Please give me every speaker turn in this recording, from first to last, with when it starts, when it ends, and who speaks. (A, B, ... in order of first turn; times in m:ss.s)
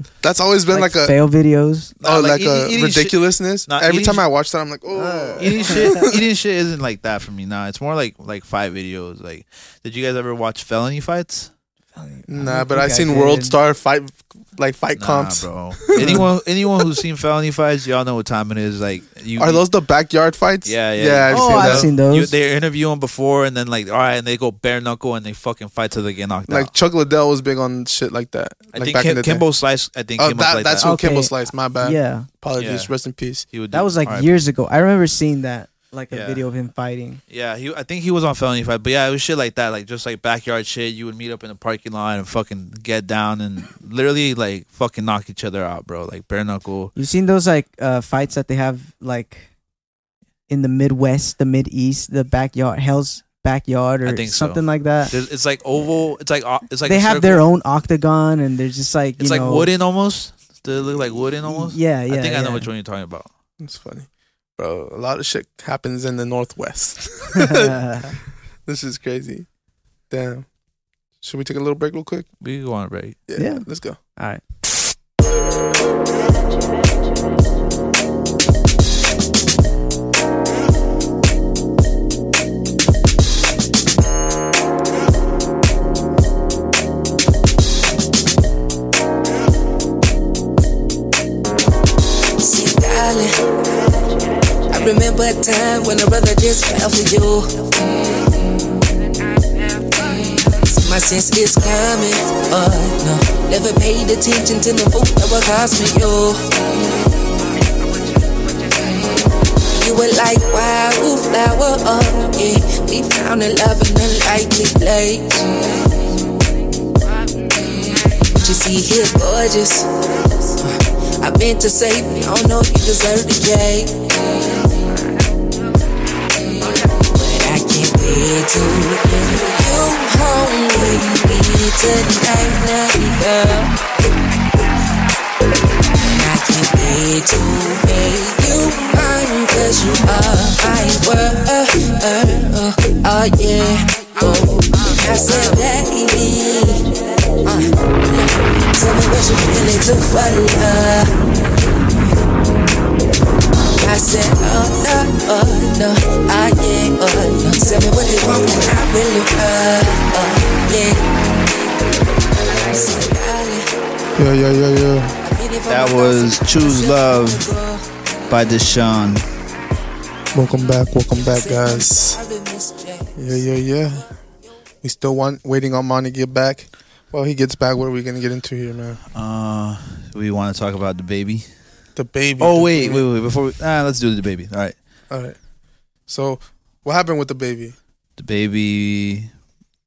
0:00.2-0:01.1 A
0:00.7-0:01.9 B
0:02.0-0:04.2 C
0:02.0-0:06.2 A
0:04.9-0:06.1 B
0:05.4-0:11.5 C
0:11.9-0:13.6 B
0:12.3-0:16.2 A
0:15.0-0:19.6 C
0:16.0-0:16.2 B
0:19.4-0:21.9 A
0:20.6-0:26.7 C
0:21.3-0:22.3 B
0:26.5-0:29.4 A
0:28.7-0:30.9 C
0:30.2-0:33.4 A
0:30.8-0:32.3 B
0:32.6-0:32.9 C
0:33.5-0:34.3 C
0:33.7-0:37.2 B
0:36.1-0:36.4 C
0:37.3-0:46.9 C
0:47.0-0:49.5 B
0:50.5-0:55.1 B
0:54.0-0:57.4 C
0:56.8-0:59.7 B
0:59.2-1:03.3 C
1:01.4-1:02.7 B
1:03.6-1:07.8 A
1:07.3-1:08.2 B
1:08.6-1:09.4 A
1:10.1-1:10.4 A
1:11.2-1:12.3 A
1:12.4-1:13.2 C
1:13.3-1:14.0 A
1:13.4-1:13.6 B
1:14.2-1:14.4 B
1:32.4-1:33.9 D
1:34.7-1:38.8 D
1:39.5-1:47.0 D
1:48.8-1:56.1 D
1:57.3-1:59.9 D
2:00.5-2:04.7 D
2:06.4-2:13.8 D
2:16.0-2:31.3 D
2:33.8-2:41.5 D
2:42.3-2:43.7 D
2:44.2-2:45.2 A
2:45.2-2:47.9 D
2:45.7-2:47.5 C
2:48.3-2:49.2 C
2:50.3-2:52.2 A
2:51.1-2:53.5 D
2:53.2-2:54.0 A
2:54.8-2:59.0 A
2:59.1-3:01.4 C
3:02.0-3:03.0 A
3:02.4-3:04.8 C
3:05.1-3:05.4 A
3:06.1-3:07.7 A
3:08.2-3:09.3 C